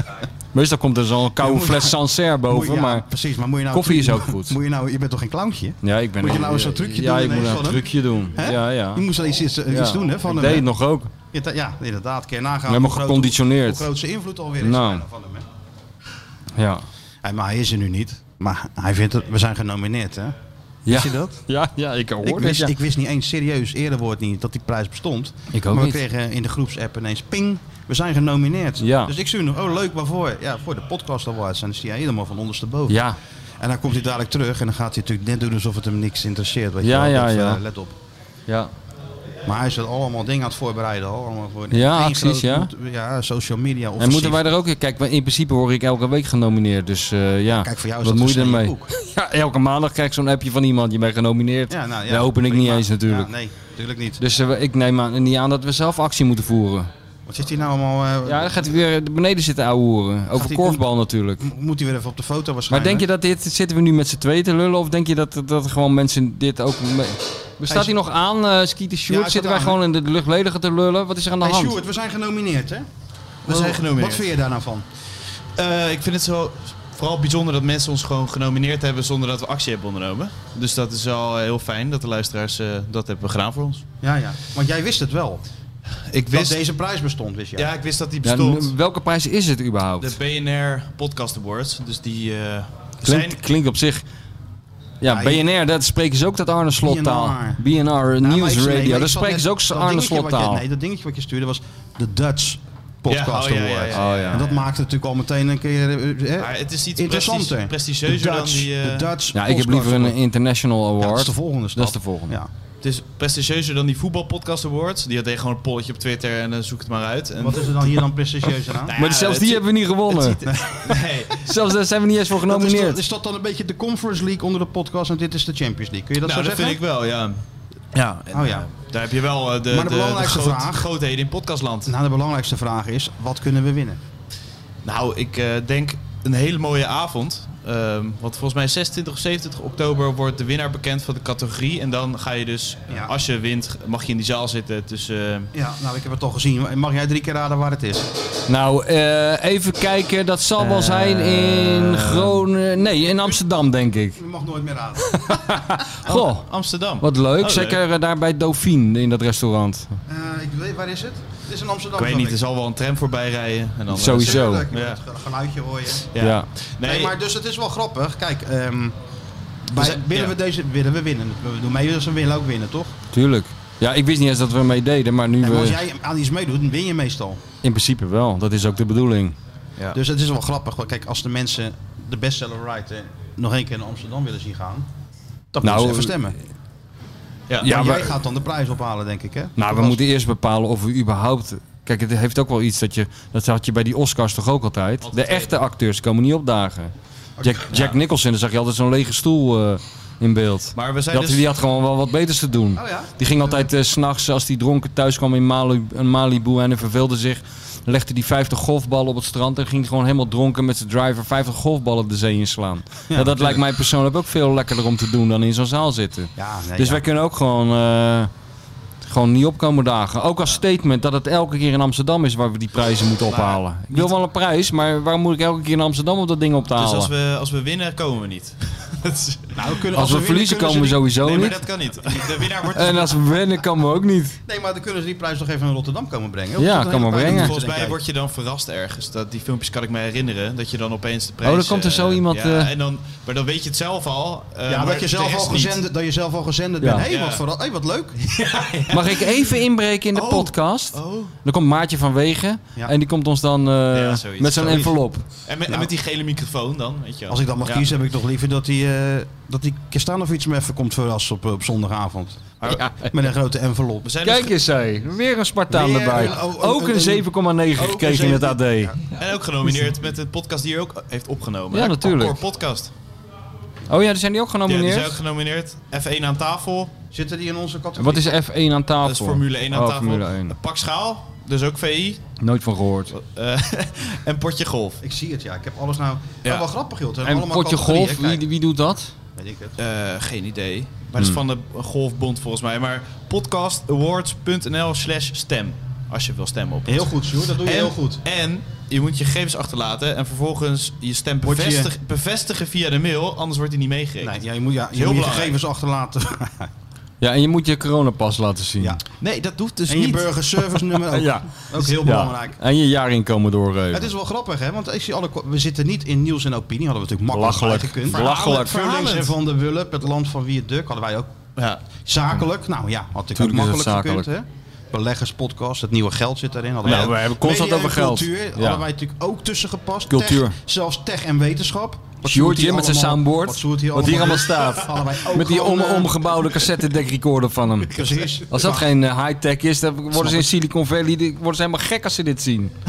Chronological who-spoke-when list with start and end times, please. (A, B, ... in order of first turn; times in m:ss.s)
0:00.5-0:03.0 A
0:01.4-0:10.7 B
0:03.7-0:04.6 A
0:05.8-0:09.0 A
0:09.7-0:11.1 A
0:11.3-0:15.4 B
0:12.7-0:13.9 A
0:14.6-0:15.0 A
0:16.6-0:16.8 A
0:17.2-0:20.3 B
0:20.8-0:22.7 A
0:20.9-0:21.4 B
0:22.2-0:33.0 B
0:25.5-0:26.0 A
0:28.8-0:29.1 A
0:32.9-0:33.2 A
0:33.6-0:38.0 B
0:36.8-0:37.6 A
0:39.4-0:44.4 B
0:41.7-0:42.7 A
0:44.0-0:53.3 A
0:47.5-0:48.9 B
0:51.7-0:54.2 B
0:54.2-0:56.9 A
0:57.3-0:58.6 B
0:58.2-1:01.5 A
1:00.3-1:00.8 B
1:01.4-1:03.1 B
1:02.7-1:11.8 A
1:07.6-1:07.9 B
1:09.1-1:09.8 B
1:11.4-1:12.9 B
1:13.4-1:14.2 C
1:13.4-1:14.8 B
1:15.6-1:23.8 C
1:24.0-1:25.4 B
1:26.1-1:26.6 C
1:26.1-1:27.7 B
1:27.6-1:28.7 C
1:28.2-1:30.2 A
1:30.0-1:33.4 C
1:33.0-1:34.0 A
1:35.0-1:40.6 A
1:35.1-1:35.4 B
1:36.8-1:37.6 B
1:38.2-1:50.2 B
1:43.1-1:44.6 C
1:43.9-1:44.4 A
1:46.4-1:49.1 C
1:49.3-1:52.4 A
1:51.0-1:52.5 B
1:52.8-1:58.1 C
1:57.4-1:59.0 B
1:58.6-2:01.4 C
1:58.9-2:00.4 A
2:00.4-2:01.1 B
2:01.4-2:03.0 A
2:02.4-2:06.8 B
2:06.2-2:07.4 C
2:07.9-2:11.9 C
2:08.3-2:08.7 B
2:09.7-2:10.9 B
2:11.8-2:14.0 B
2:14.8-2:25.5 C
2:22.9-2:23.1 B
2:25.5-2:28.0 B
2:28.5-2:34.2 A
2:30.6-2:32.4 C
2:32.8-2:35.8 B
2:35.0-2:36.5 A
2:36.1-2:37.8 C
2:37.0-2:40.0 A
2:40.1-2:42.4 B
2:41.9-2:45.0 C
2:43.9-2:44.6 A
2:43.9-2:46.1 B
2:46.1-2:47.1 C
2:46.2-2:46.5 A
2:46.8-2:48.9 B
2:49.7-2:53.0 B
2:49.8-2:50.3 C
2:53.1-2:55.8 A
2:55.4-2:57.4 B
2:57.6-2:59.3 A
2:59.9-3:04.9 B
3:05.5-3:06.4 B
3:05.6-3:06.3 A
3:07.6-3:08.1 A
3:07.6-3:10.0 B
3:09.6-3:16.9 A
3:15.0-3:15.6 C
3:17.4-3:17.8 B
3:17.4-3:38.3 A
3:20.7-3:21.5 C
3:22.8-3:23.7 B
3:33.1-3:33.6 B
3:36.4-3:37.0 B
3:39.0-3:47.1 A
3:46.7-3:49.7 C
3:49.6-3:53.1 B
3:49.9-3:51.6 A
3:51.2-3:53.2 C
3:52.7-3:54.4 A
3:54.4-3:58.0 B
3:56.6-3:57.5 A
3:57.2-4:05.8 C
4:01.4-4:02.7 A
4:04.7-4:08.8 B
4:06.8-4:07.1 A
4:07.0-4:07.4 C
4:08.4-4:09.3 C
4:08.9-4:15.2 A
4:10.1-4:11.3 C
4:13.9-4:14.9 C
4:14.6-4:15.0 B
4:15.4-4:17.9 C
4:15.7-4:15.9 B
4:17.3-4:24.1 B
4:22.7-4:23.1 A
4:24.0-4:24.5 C
4:24.2-4:29.0 A
4:25.7-4:29.0 B
4:29.1-4:32.9 C
4:31.7-4:32.4 A
4:33.9-4:35.2 A
4:34.6-4:36.9 C
4:37.1-4:38.2 B
4:38.0-4:40.5 A
4:39.0-4:42.2 C
4:42.4-4:43.1 A
4:43.1-4:45.0 C
4:45.0-4:48.4 B
4:47.2-4:49.1 A
4:49.4-4:49.8 B
4:49.8-5:04.4 C
4:56.9-4:58.2 B
5:01.4-5:01.9 B
5:04.2-5:06.7 B
5:04.9-5:05.6 C
5:07.2-5:09.0 A
5:08.8-5:09.0 B
5:09.2-5:10.3 C
5:09.9-5:12.6 B
5:11.1-5:14.1 A
5:13.9-5:21.3 B
5:17.3-5:19.0 A
5:18.1-5:19.3 C
5:21.6-5:22.4 C
5:22.0-5:36.4 B
5:23.4-5:24.3 A
5:26.8-5:28.8 A
5:30.1-5:30.5 A
5:32.2-5:42.7 A
5:37.9-5:38.9 B
5:40.1-5:40.5 B